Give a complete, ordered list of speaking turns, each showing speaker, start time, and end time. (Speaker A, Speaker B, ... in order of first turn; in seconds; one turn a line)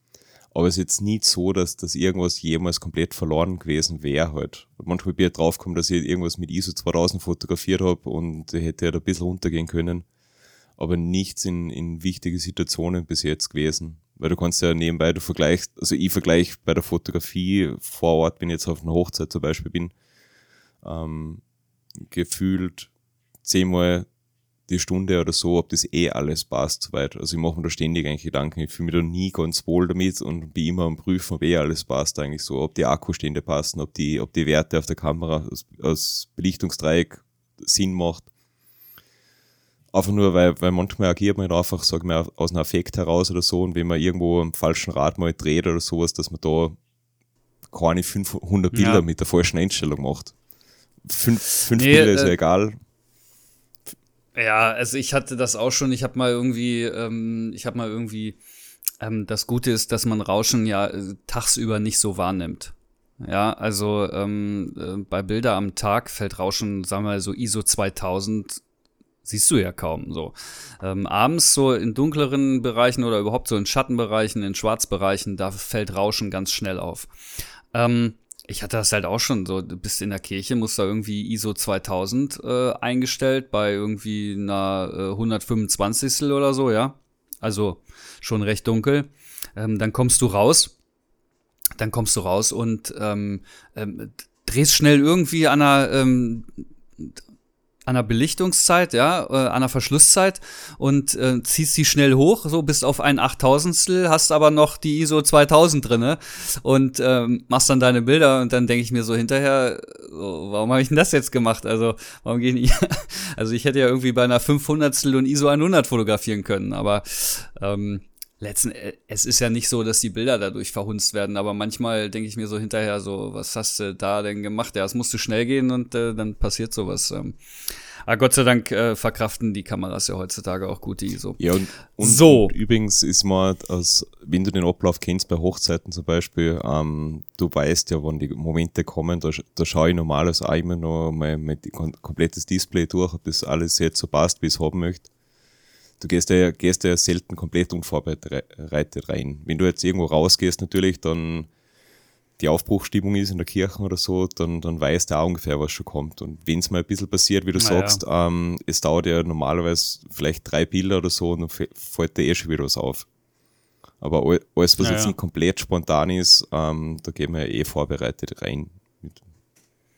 Speaker A: 0.5-10.1
Speaker A: 10.8-19.9
Speaker A: 20.8-21.4
Speaker A: 22.0-22.9
Speaker A: 23.4-24.1
Speaker A: 24.7-38.3
Speaker A: 39.9-46.8
Speaker A: 47.7-50.3
Speaker B: 48.7-49.0
Speaker A: 51.0-52.8
Speaker B: 51.6-52.3
Speaker B: 54.3-58.4
Speaker B: 59.0-68.6
Speaker B: 69.2-77.1
Speaker B: 77.7-90.7
Speaker B: 91.8-97.1
Speaker B: 97.8-127.4
Speaker B: 128.1-131.4
Speaker A: 131.4-145.1
Speaker B: 132.0-132.5
Speaker A: 146.0-151.5
Speaker A: 152.4-163.1
Speaker B: 157.6-158.0
Speaker A: 164.0-169.2
Speaker B: 164.8-165.1